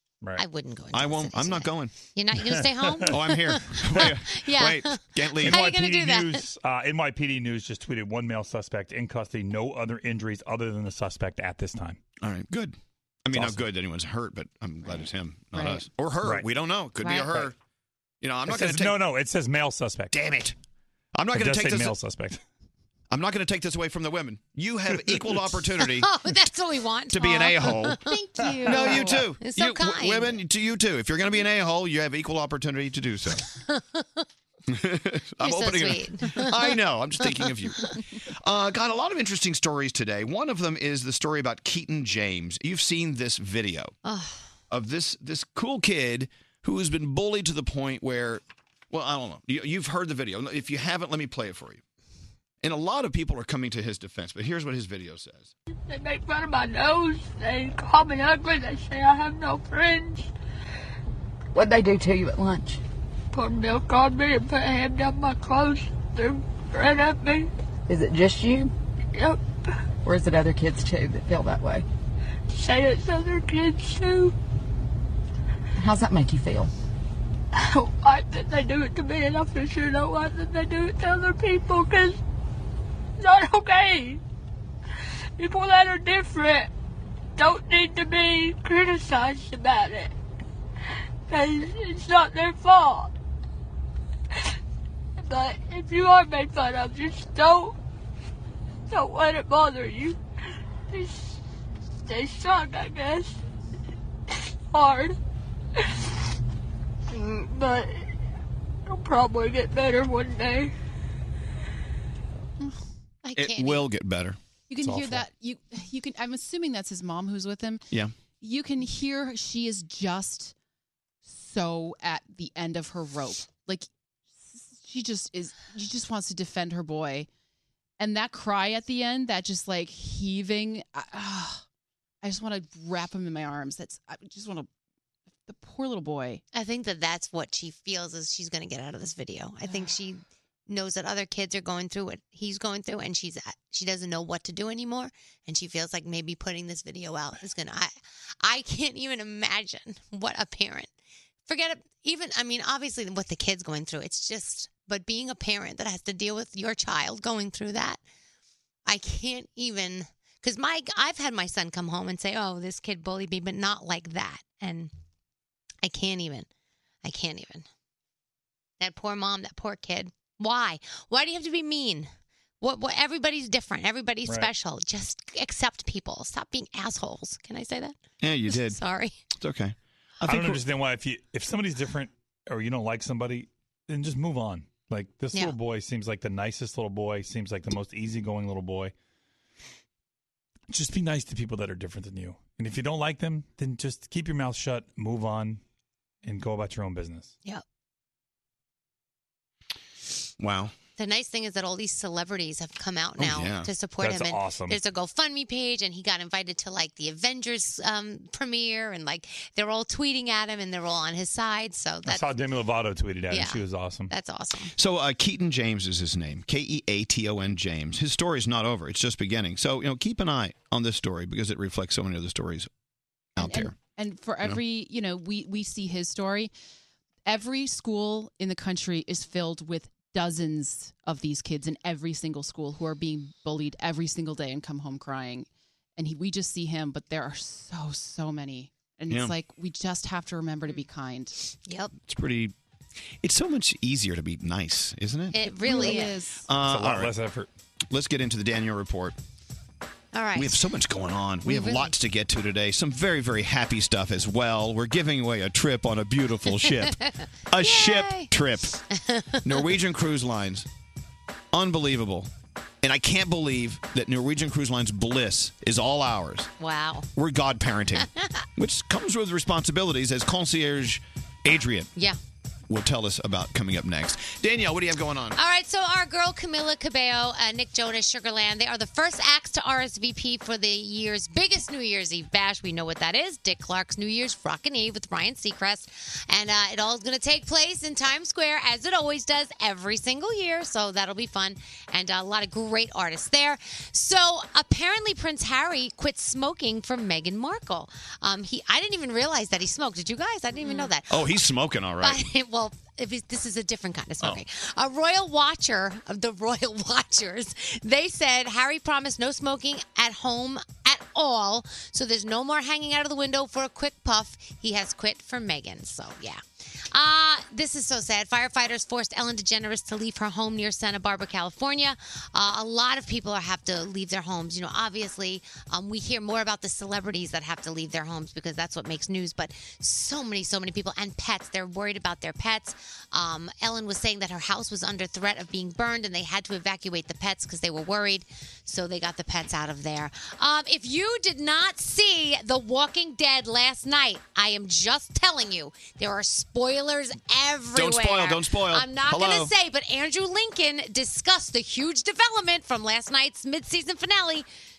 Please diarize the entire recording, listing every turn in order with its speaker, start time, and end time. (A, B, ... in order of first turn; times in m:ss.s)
0:00.4-0:06.5 A
0:00.9-0:01.9 B
0:02.5-0:03.1 C
0:03.0-0:05.6 B
0:05.4-0:12.0 C
0:12.2-0:17.5 B
0:13.3-0:13.6 C
0:15.5-0:15.8 D
0:18.2-0:19.0 B
0:18.5-0:20.1 C
0:20.1-0:20.5 B
0:21.1-0:21.9 B
0:21.3-0:22.4 C
0:23.1-0:26.1 B
0:25.8-0:30.4 A
0:27.1-0:28.0 B
0:28.6-0:33.4 B
0:33.6-0:34.2 A
0:34.7-0:37.9 B
0:35.4-0:37.9 A
0:38.4-0:43.9 B
0:44.0-0:44.4 A
0:44.7-0:51.8 B
0:52.6-0:55.5 B
0:55.9-1:00.3 E
1:01.5-1:02.8 F
1:03.3-1:07.5 E
1:07.9-1:08.7 F
1:09.1-1:09.4 E
1:10.0-1:11.8 F
1:12.5-1:14.3 E
1:15.8-1:16.7 F
1:17.5-1:22.2 E
1:23.2-1:24.2 E
1:25.4-1:26.7 E
1:27.4-1:30.1 E
1:31.3-1:33.1 E
1:35.2-1:37.8 E
1:38.9-1:40.2 E
1:40.9-1:41.4 E
1:42.1-1:43.4 E
1:44.3-1:45.2 E
1:47.1-1:48.1 E
1:48.9-1:50.7 E
1:53.2-1:53.9 A
1:53.4-1:54.4 B
1:54.7-1:57.8 D
1:54.8-1:55.2 C
1:58.4-2:00.5 D
2:01.2-2:07.3 D
2:08.0-2:11.6 D
2:12.2-2:14.7 D
2:15.4-2:16.4 D
2:16.5-2:30.9 A
2:31.5-2:38.0 A
2:38.8-2:44.9 A
2:45.8-2:46.5 A
2:47.0-2:47.7 A
2:48.8-2:59.2 A
2:58.2-2:58.8 B
2:59.3-3:00.6 B
3:00.2-3:08.9 C
3:10.7-3:15.6 C
3:16.2-3:17.3 C
3:20.4-3:20.7 B
3:21.0-3:32.3 A
3:23.2-3:23.7 B
3:24.0-3:24.8 C
3:32.0-3:34.1 C
3:33.3-3:34.7 A
3:34.8-3:42.7 B
3:43.4-3:43.7 B
3:43.4-3:46.5 D
3:47.2-4:01.4 D
4:01.6-4:01.9 A
4:01.9-4:02.5 B
4:03.2-4:05.4 B
4:05.3-4:06.2 A
4:05.5-4:06.5 D
4:06.5-4:07.1 B
4:06.6-4:07.5 C
4:07.9-4:09.2 B
4:10.1-4:10.6 A
4:10.3-4:17.0 B
4:11.4-4:11.9 A
4:16.8-4:18.3 A
4:17.5-4:18.8 B
4:18.9-4:19.6 A
4:19.4-4:20.6 B
4:21.5-4:22.3 B
4:22.8-4:26.5 B
4:26.6-4:27.1 A
4:27.2-4:31.9 B
4:32.7-4:35.4 B
4:35.3-5:01.3 A
5:01.1-5:02.2 B
5:02.0-5:54.5 A
5:47.7-5:49.5 B